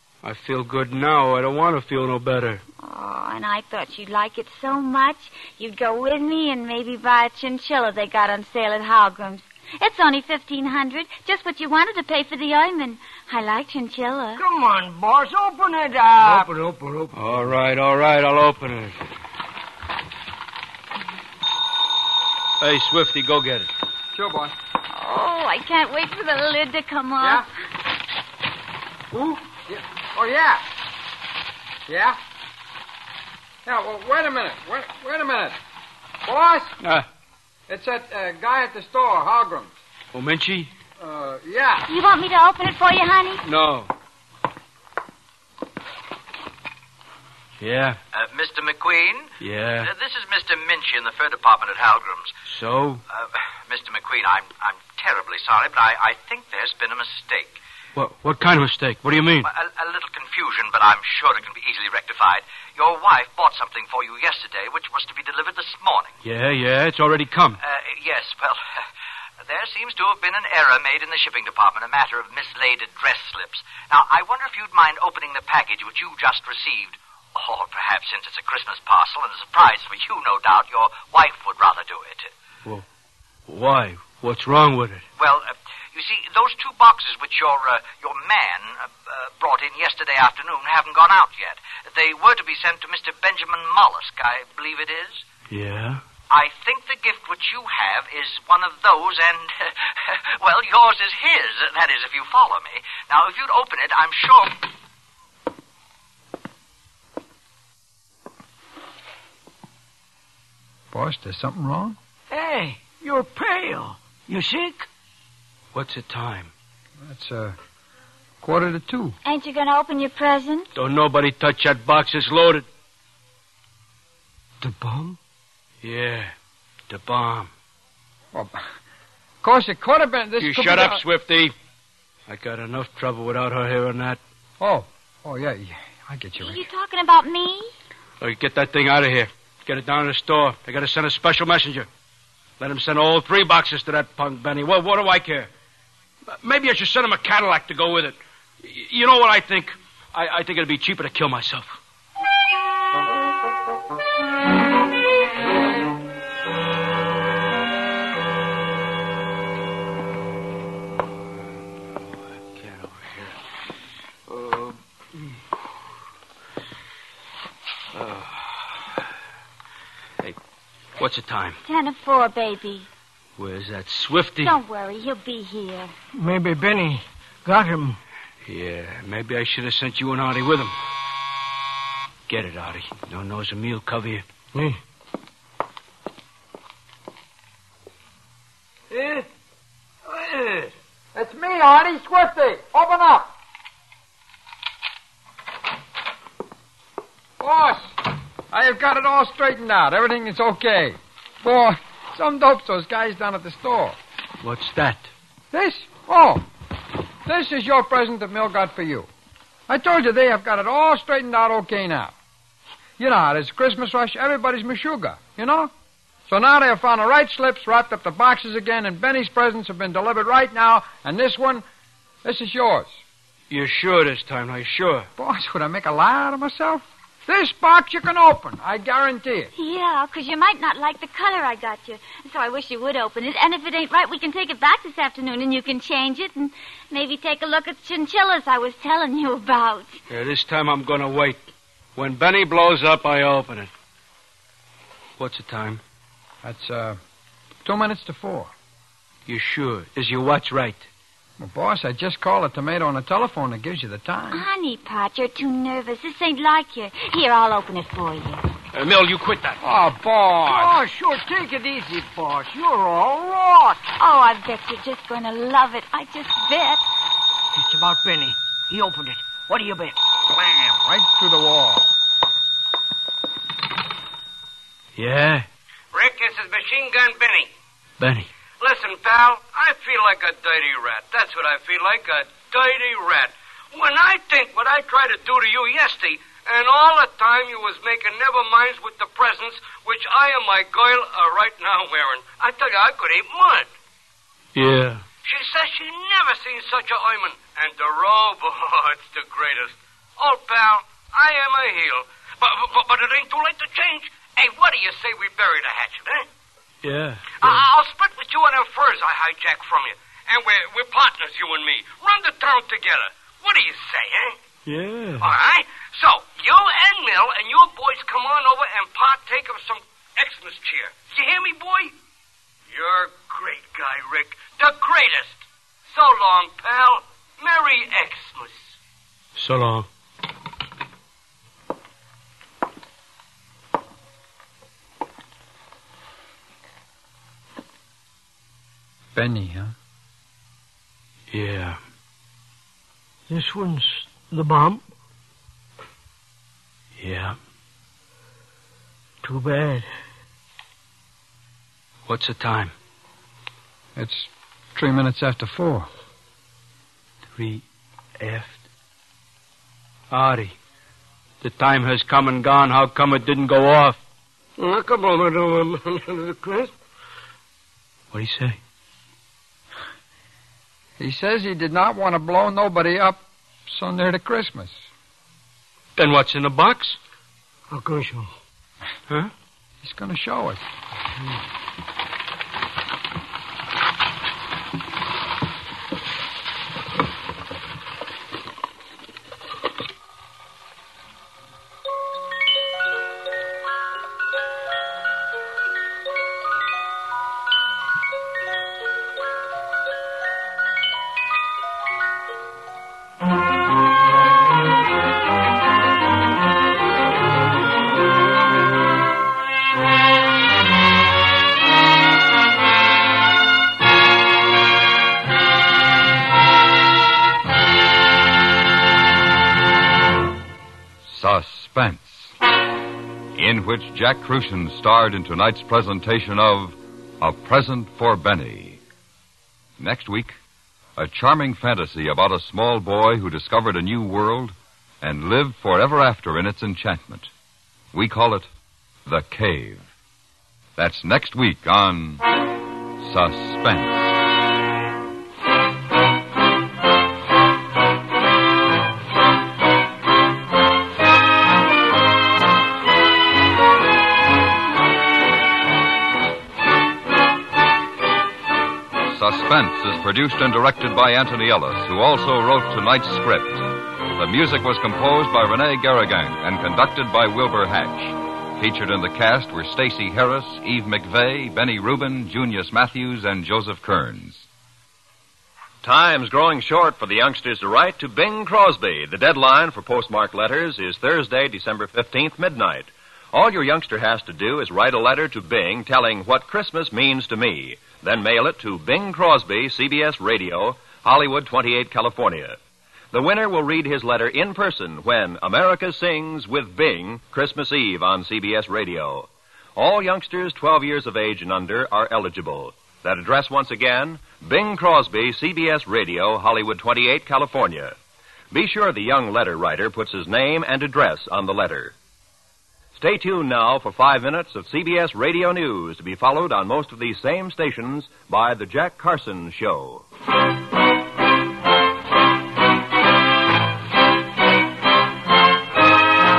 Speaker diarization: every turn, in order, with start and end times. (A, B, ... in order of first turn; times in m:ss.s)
0:00.2-0:02.6 A
0:02.8-0:14.4 B
0:14.4-0:17.5 C
0:17.1-0:19.0 A
0:22.6-0:23.7 A
0:24.1-0:24.6 D
0:24.9-0:27.5 B
0:27.2-0:27.5 D
0:29.1-0:30.6 D
0:31.9-0:32.2 D
0:33.6-0:35.6 D
0:36.2-0:36.8 D
0:36.8-0:37.1 A
0:37.7-0:39.7 D
0:40.1-0:40.7 A
0:41.0-0:41.9 D
0:41.9-0:43.4 B
0:43.4-0:43.9 A
0:47.6-0:48.0 A
0:48.1-0:52.3 E
0:49.4-0:49.9 A
0:52.5-0:53.0 A
0:53.1-0:57.6 E
0:58.0-0:59.5 A
0:59.4-1:06.2 E
1:06.2-1:07.6 A
1:07.6-1:08.6 E
1:09.4-1:22.3 E
1:23.5-1:25.0 A
1:25.2-1:35.2 E
1:35.5-1:36.0 A
1:36.3-1:44.6 E
1:50.9-1:52.0 D
1:52.3-1:54.9 C
1:55.7-1:56.5 A
1:57.0-1:57.6 D
1:58.4-1:59.2 D
1:59.2-2:00.7 B
2:00.8-2:02.7 A
2:04.6-2:05.2 C
2:05.8-2:06.3 A
2:06.9-2:07.5 A
2:08.3-2:08.6 D
2:09.4-2:11.0 D
2:10.4-2:11.5 A
2:12.3-2:14.2 A
2:14.6-2:16.6 D
2:16.4-2:17.7 B
2:18.2-2:21.9 A
2:22.6-2:25.5 A
2:26.3-2:31.8 A
2:42.5-2:43.4 A
2:44.3-2:44.7 A
2:48.0-2:48.5 A
2:51.0-2:51.6 A
2:51.6-2:52.9 B
2:53.4-2:54.6 A
2:54.4-2:55.9 B
2:56.2-2:58.0 C
2:58.4-3:00.7 A
3:02.3-3:04.2 A
3:04.5-3:04.8 C
3:08.9-3:09.3 C
3:10.1-3:10.7 C
3:11.2-3:13.3 D
3:17.4-3:18.0 D
3:18.5-3:24.0 D
3:24.4-3:25.1 A
3:25.5-3:26.4 D
3:27.3-3:29.1 D
3:29.7-3:32.2 D
3:33.0-3:35.7 D
3:36.3-3:41.6 D
3:42.2-3:43.0 D
3:43.5-3:45.1 A
3:45.2-3:49.5 D
3:49.6-4:00.0 B
4:00.1-4:01.4 A
4:02.0-4:03.7 A
4:05.2-4:05.8 A
4:06.4-4:07.0 D
4:07.6-4:08.5 D
4:09.3-4:10.9 A
4:11.4-4:14.4 D
4:14.3-4:18.4 B
4:18.7-4:19.6 A
4:19.6-4:20.8 D
4:20.5-4:23.9 C
4:24.0-4:26.8 B
4:27.5-4:30.0 C
4:30.3-4:31.9 D
4:35.0-4:35.5 A
4:35.9-4:37.5 F
4:38.0-4:38.3 A
4:38.6-4:53.7 F
4:54.6-4:55.0 A
4:55.2-5:06.3 F
5:06.8-5:07.6 A
5:07.4-5:14.4 F
5:14.7-5:15.3 A
5:15.2-5:21.9 F
5:22.7-5:28.7 F
5:29.4-5:29.9 A
5:39.2-5:39.7 D
5:41.3-5:41.8 A
5:43.3-5:44.8 C
5:47.0-5:47.4 A
5:49.2-5:49.9 C
5:52.1-5:52.7 A
5:54.0-5:55.9 D
5:57.3-5:57.6 A
5:58.2-5:58.6 A
6:00.1-6:00.6 A
6:01.4-6:04.0 A
6:04.6-6:06.7 C
6:04.8-6:05.7 F
6:08.1-6:08.6 A
6:11.0-6:14.8 D
6:16.0-6:17.0 A
6:17.7-6:18.3 C
6:19.8-6:20.6 D
7:01.0-7:02.3 G
7:03.4-7:08.8 G
7:09.8-7:10.4 G
7:11.0-7:17.3 G
7:17.9-7:18.5 G
7:19.0-7:19.9 G
7:20.8-7:22.2 G
7:23.0-7:24.2 G
7:39.0-7:54.5 G
7:55.8-8:12.6 H
8:13.1-8:28.0 H
8:28.5-8:32.0 H
8:33.0-8:40.0 H